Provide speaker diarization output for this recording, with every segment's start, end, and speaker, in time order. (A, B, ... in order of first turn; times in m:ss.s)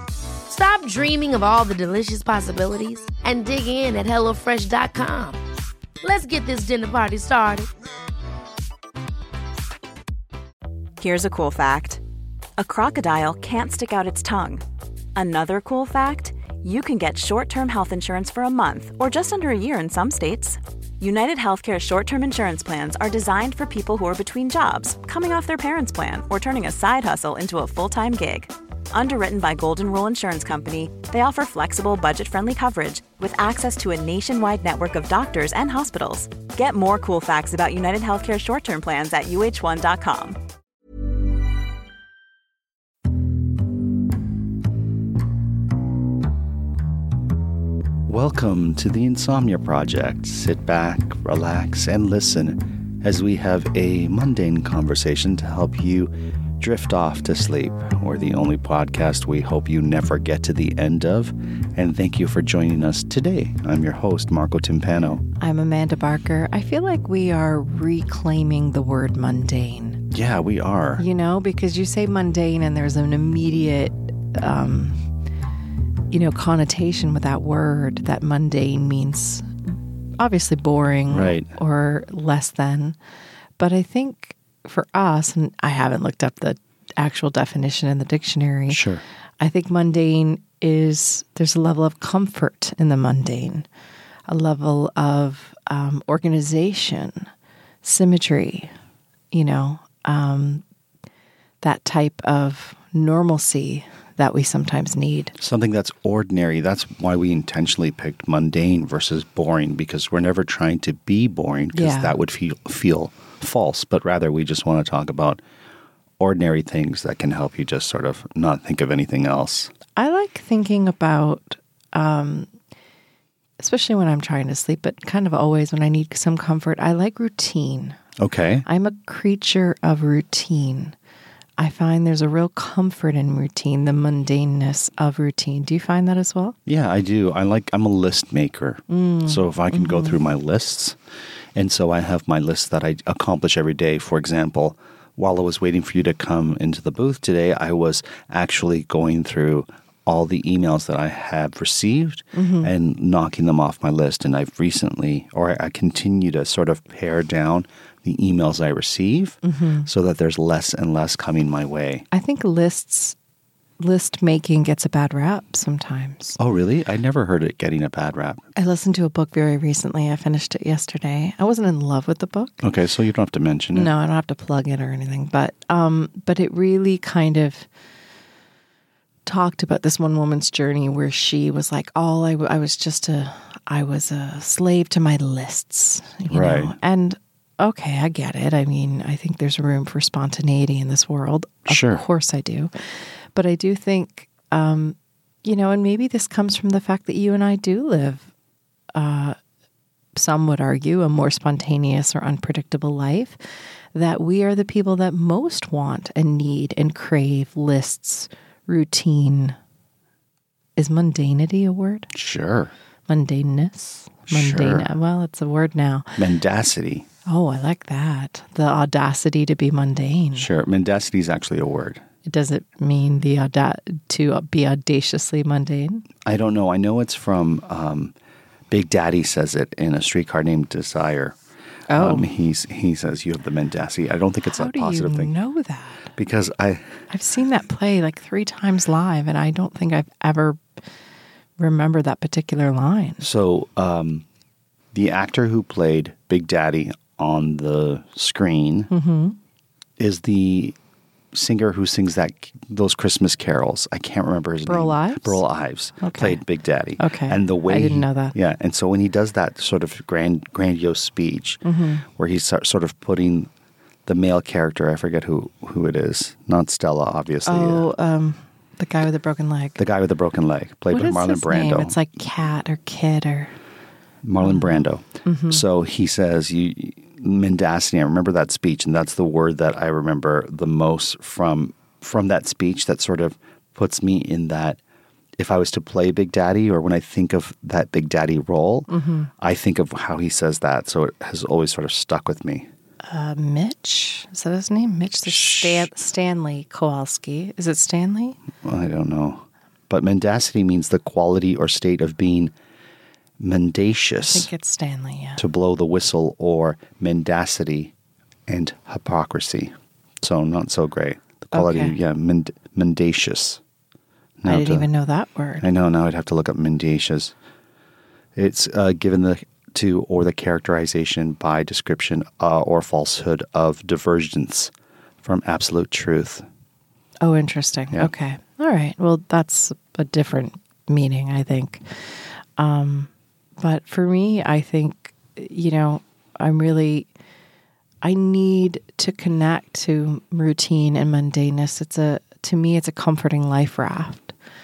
0:00.5-0:05.4 A
0:06.0-0:07.7 A
0:11.0-0:12.0 B
0:12.6-0:14.6 B
0:15.1-0:40.4 B
0:48.1-1:05.2 C
1:05.4-1:10.0 D
1:10.1-1:11.0 C
1:11.0-1:15.0 D
1:16.1-1:23.0 D
1:21.1-1:21.5 C
1:23.6-1:28.8 D
1:28.7-1:29.0 C
1:29.4-1:33.7 D
1:34.3-1:37.3 D
1:37.8-1:38.7 D
1:39.3-1:40.6 D
1:41.6-1:45.3 D
1:45.4-1:55.4 C
1:51.7-1:52.1 D
1:56.2-1:59.7 C
2:00.0-2:02.5 D
2:03.6-2:08.0 D
2:08.2-2:08.6 C
2:08.6-2:10.9 D
2:11.6-2:16.5 D
2:16.6-2:21.0 C
2:18.9-2:20.2 D
2:21.5-2:42.0 C
2:32.3-2:32.7 D
2:39.4-2:39.9 D
2:42.1-2:43.2 D
2:43.8-2:46.4 D
2:46.4-2:48.4 C
2:48.6-2:52.6 D
2:52.6-2:53.9 C
2:53.7-2:57.7 D
2:59.2-3:12.7 D
3:06.3-3:06.8 C
3:11.7-3:12.0 C
3:13.3-3:18.3 D
3:18.9-3:19.4 D
3:20.1-3:23.4 D
3:23.9-3:29.6 D
3:30.8-3:32.1 D
3:32.1-3:32.7 C
3:33.1-3:36.2 D
3:34.3-3:34.9 C
3:36.2-3:37.1 C
3:37.2-3:40.5 D
3:40.4-3:42.0 C
3:42.2-3:46.1 D
3:46.2-3:48.1 C
3:48.7-3:51.4 C
3:51.9-3:52.3 D
3:51.9-3:55.3 C
3:54.4-3:56.1 D
3:56.1-3:57.0 C
3:57.1-4:00.6 D
4:01.6-4:03.2 D
4:03.2-4:04.2 C
4:04.9-4:08.9 C
4:08.9-4:09.4 D
4:10.0-4:10.8 C
4:11.3-4:23.5 C
4:14.6-4:15.4 D
4:16.0-4:16.4 D
4:17.0-4:18.3 D
4:21.6-4:22.0 D
4:24.0-4:27.9 C
4:27.4-4:29.8 D
4:29.8-4:32.0 C
4:30.9-4:33.6 D
4:34.2-4:44.8 C
4:34.4-4:34.7 D
4:35.2-4:35.6 D
4:45.4-4:52.7 C
4:48.9-4:49.3 D
4:53.1-4:58.4 D
4:55.3-4:55.9 C
4:58.6-5:02.5 C
5:03.4-5:04.5 C
5:04.2-5:05.4 D
5:05.4-5:07.9 C
5:08.5-5:13.6 C
5:11.5-5:12.0 D
5:14.4-5:14.9 C
5:14.4-5:15.6 D
5:15.6-5:17.3 C
5:18.3-5:24.7 C
5:25.2-5:26.4 C
5:27.2-5:37.1 D
5:38.0-5:44.3 D